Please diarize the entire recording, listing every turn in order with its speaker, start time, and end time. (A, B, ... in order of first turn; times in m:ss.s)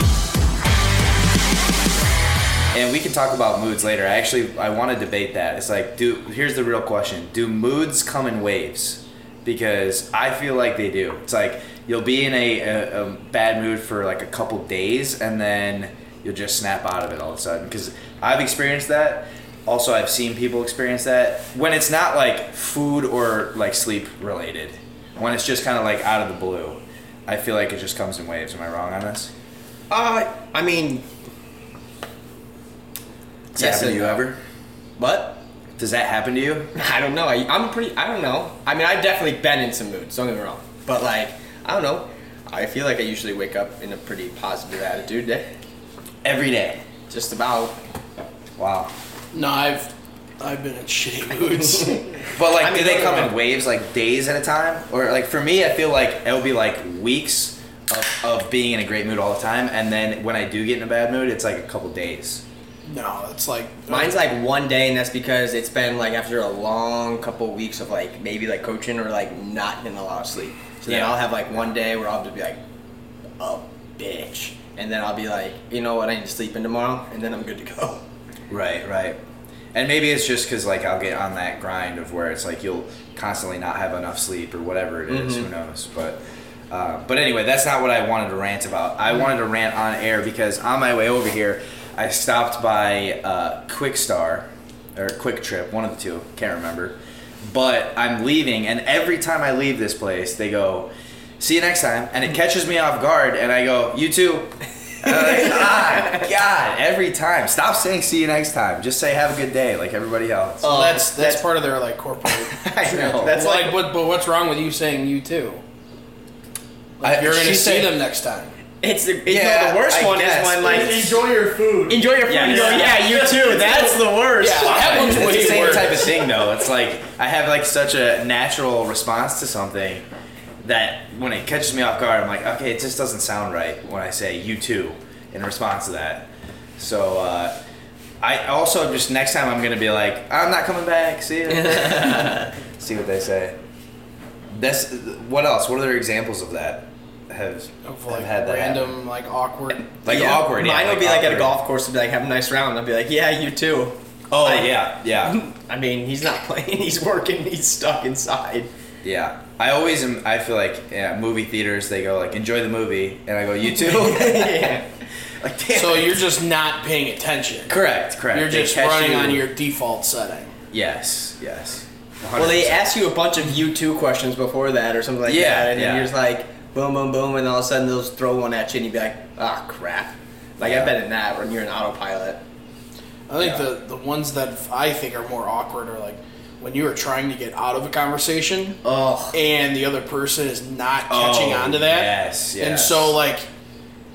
0:02.7-0:29.3 A
0:29.9-0:31.0 B
0:33.6-0:34.3 B
0:33.6-0:34.4 A
0:35.0-0:35.4 B
0:35.8-0:36.7 A
0:36.8-0:45.5 B
0:46.2-0:46.8 A
0:47.1-0:47.8 B
0:48.6-0:48.9 A
0:49.3-0:52.2 C
0:52.3-1:02.4 A
0:52.4-0:53.3 B
1:02.9-1:04.2 C
1:03.9-1:12.6 B
1:10.9-1:11.2 A
1:13.4-1:18.0 B
1:18.5-1:19.2 A
1:19.7-1:50.8 A
1:25.1-1:25.5 B
1:45.0-1:46.3 B
1:50.6-1:51.4 B
1:50.6-1:55.6 C
1:52.6-1:53.8 B
1:52.8-1:53.4 A
1:57.0-1:58.6 C
1:57.0-1:58.0 A
1:58.8-2:01.1 B
1:59.3-2:01.2 A
2:00.6-2:04.1 D
2:01.9-2:05.9 B
2:02.2-2:03.0 A
2:04.4-2:06.1 C
2:04.6-2:10.0 A
2:10.6-2:17.6 A
2:18.2-2:23.6 A
2:21.6-2:22.5 B
2:24.5-2:28.9 A
2:27.8-2:29.9 C
2:30.0-2:31.6 A
2:30.1-2:38.7 B
2:34.3-2:35.4 A
2:39.0-2:44.8 A
2:43.6-2:44.9 B
2:45.4-2:45.9 A
2:45.5-2:46.0 B
2:45.7-2:47.8 C
2:47.7-2:49.4 A
2:48.3-2:50.6 C
2:50.7-2:52.9 A
2:52.4-3:02.4 B
2:55.3-2:56.1 A
3:00.6-3:00.9 A
3:03.3-3:08.8 C
3:08.8-3:09.4 B
3:09.3-3:13.5 C
3:11.1-3:13.2 A